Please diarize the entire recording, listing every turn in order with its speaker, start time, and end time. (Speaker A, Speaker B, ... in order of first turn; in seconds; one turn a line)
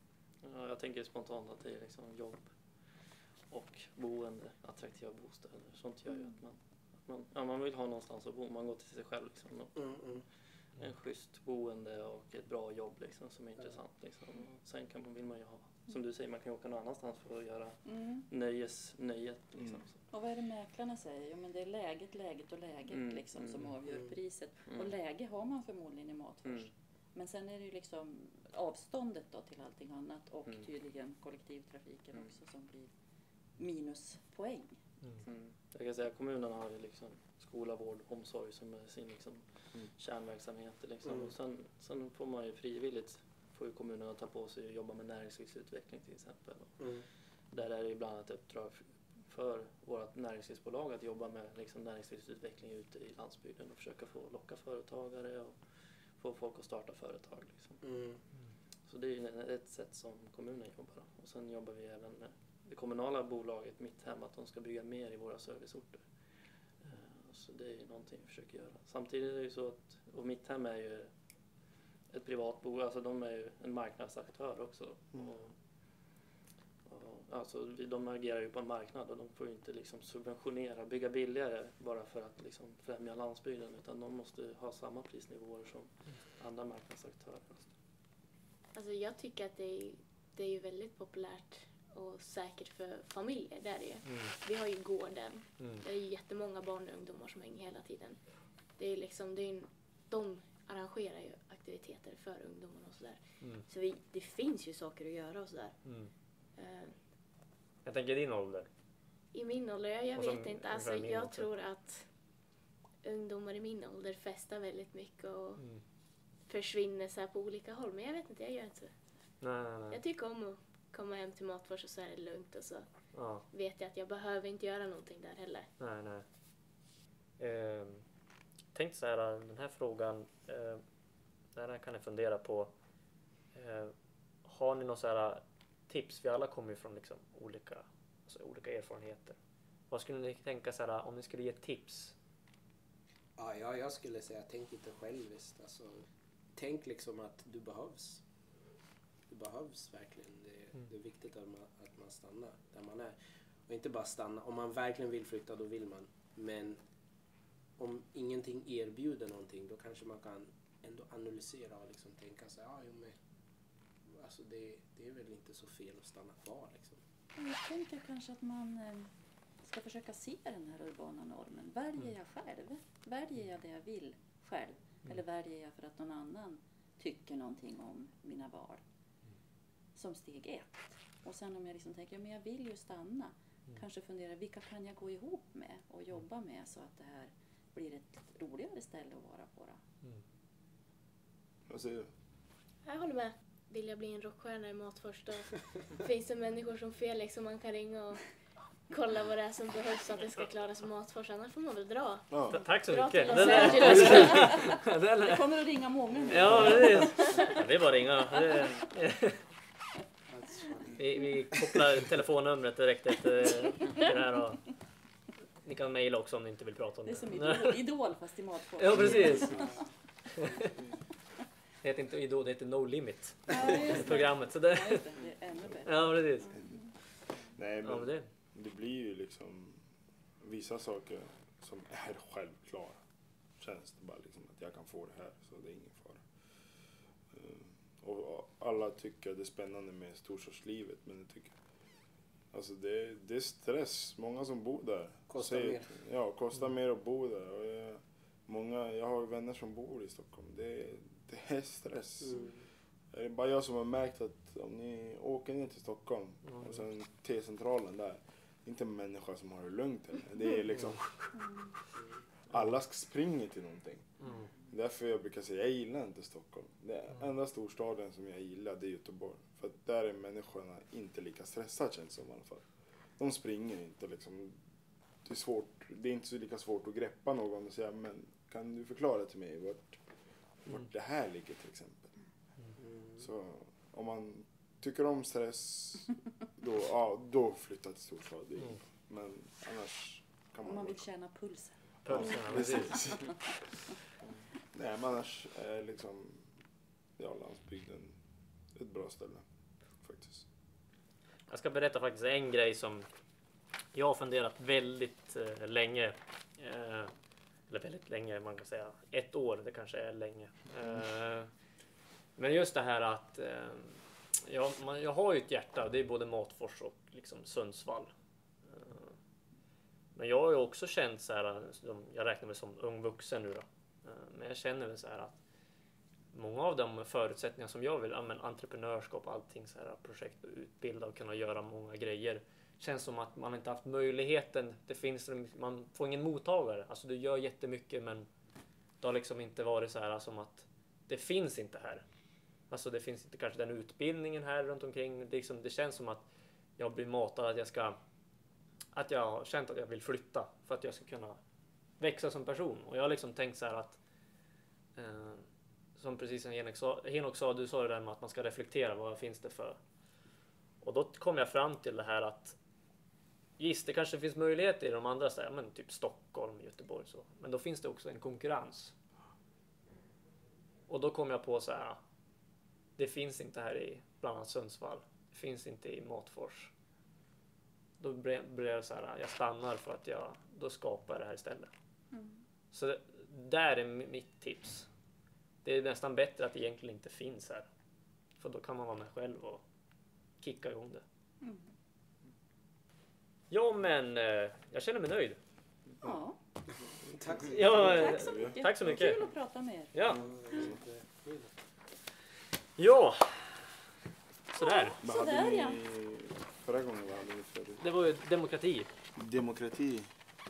Speaker A: 0.4-10.2
Speaker B: 9.8-10.2
Speaker A: 10.8-20.0
Speaker C: 17.9-18.2
Speaker C: 20.1-32.9
Speaker A: 22.9-23.7
Speaker C: 33.6-34.8
Speaker A: 35.2-57.9
Speaker B: 41.0-41.3
Speaker B: 46.8-47.0
Speaker B: 57.8-58.2
Speaker A: 58.9-71.1
Speaker A: 72.1-76.2
Speaker A: 76.8-87.7
Speaker D: 88.7-98.2
Speaker E: 94.0-94.3
Speaker E: 95.6-95.8
Speaker D: 98.8-105.8
Speaker E: 103.4-103.7
Speaker E: 105.8-106.1
Speaker D: 106.6-106.9
Speaker E: 107.8-108.7
Speaker D: 109.3-112.1
Speaker E: 110.2-111.4
Speaker D: 113.0-115.6
Speaker E: 115.6-115.8
Speaker D: 116.5-118.9
Speaker E: 119.4-120.0
Speaker D: 119.9-125.7
Speaker E: 123.1-123.5
Speaker E: 125.8-126.2
Speaker E: 127.4-128.0
Speaker E: 128.7-130.8
Speaker E: 131.5-132.7
Speaker E: 133.5-133.9
Speaker E: 134.4-139.4
Speaker E: 139.9-142.1
Speaker B: 143.4-148.2
Speaker B: 149.3-153.2
Speaker B: 153.7-156.8
Speaker B: 157.8-163.1
Speaker B: 164.1-167.0
Speaker C: 167.3-169.1
Speaker C: 169.6-178.8
Speaker C: 179.9-189.8
Speaker F: 191.7-192.1
Speaker D: 192.8-198.2
Speaker D: 198.9-204.6
Speaker F: 202.3-202.6
Speaker E: 202.5-205.4
Speaker C: 203.3-207.6
Speaker E: 206.3-209.4
Speaker B: 210.3-211.3
Speaker E: 211.0-214.7
Speaker E: 215.6-217.8
Speaker C: 217.0-219.8
Speaker E: 218.8-219.8
Speaker B: 219.5-219.8
Speaker E: 220.3-220.7
Speaker E: 221.8-225.0
Speaker C: 223.5-226.9
Speaker E: 225.8-226.6
Speaker F: 227.4-229.8
Speaker E: 227.8-228.3
Speaker F: 230.4-233.0
Speaker F: 233.6-236.2
Speaker F: 237.3-241.6
Speaker F: 242.5-252.4
Speaker B: 245.3-246.0
Speaker B: 252.2-252.6
Speaker F: 253.1-261.4
Speaker E: 256.5-256.8
Speaker C: 261.4-261.7
Speaker F: 262.5-264.1
Speaker E: 264.2-264.5
Speaker F: 264.7-272.7
Speaker F: 273.2-274.6
Speaker F: 275.2-280.0
Speaker F: 280.6-282.1
Speaker B: 282.8-283.2
Speaker F: 283.2-291.0
Speaker C: 290.6-293.2
Speaker E: 292.0-293.0
Speaker F: 292.1-293.8
Speaker F: 294.7-296.5
Speaker F: 297.2-298.1
Speaker F: 298.7-299.4
Speaker F: 300.0-300.4
Speaker E: 301.5-303.1
Speaker E: 303.9-307.1
Speaker E: 307.7-311.5
Speaker E: 312.4-318.1
Speaker E: 318.7-319.1
Speaker E: 320.1-325.4
Speaker E: 326.3-338.3
Speaker E: 339.0-342.0
Speaker E: 342.7-346.2
Speaker E: 346.8-348.0
Speaker E: 348.9-351.4
Speaker E: 352.0-354.0
Speaker E: 354.9-355.4
Speaker E: 356.0-359.8
Speaker E: 360.8-362.6
Speaker E: 363.6-368.9
Speaker E: 370.9-372.0
Speaker E: 373.0-376.7
Speaker E: 378.0-381.7
Speaker C: 382.1-382.4
Speaker E: 382.7-384.9
Speaker E: 385.6-387.7
Speaker E: 388.4-389.6
Speaker E: 390.4-391.0
Speaker C: 391.4-391.7
Speaker E: 393.5-395.4
Speaker C: 396.0-396.4
Speaker B: 397.0-398.0
Speaker E: 397.4-399.2
Speaker C: 397.7-400.0
Speaker F: 398.2-398.6
Speaker E: 399.9-400.2
Speaker B: 400.1-401.5
Speaker E: 402.8-403.8
Speaker E: 404.5-405.0
Speaker C: 404.6-405.8
Speaker F: 405.0-407.8
Speaker E: 407.8-408.9
Speaker F: 409.1-410.1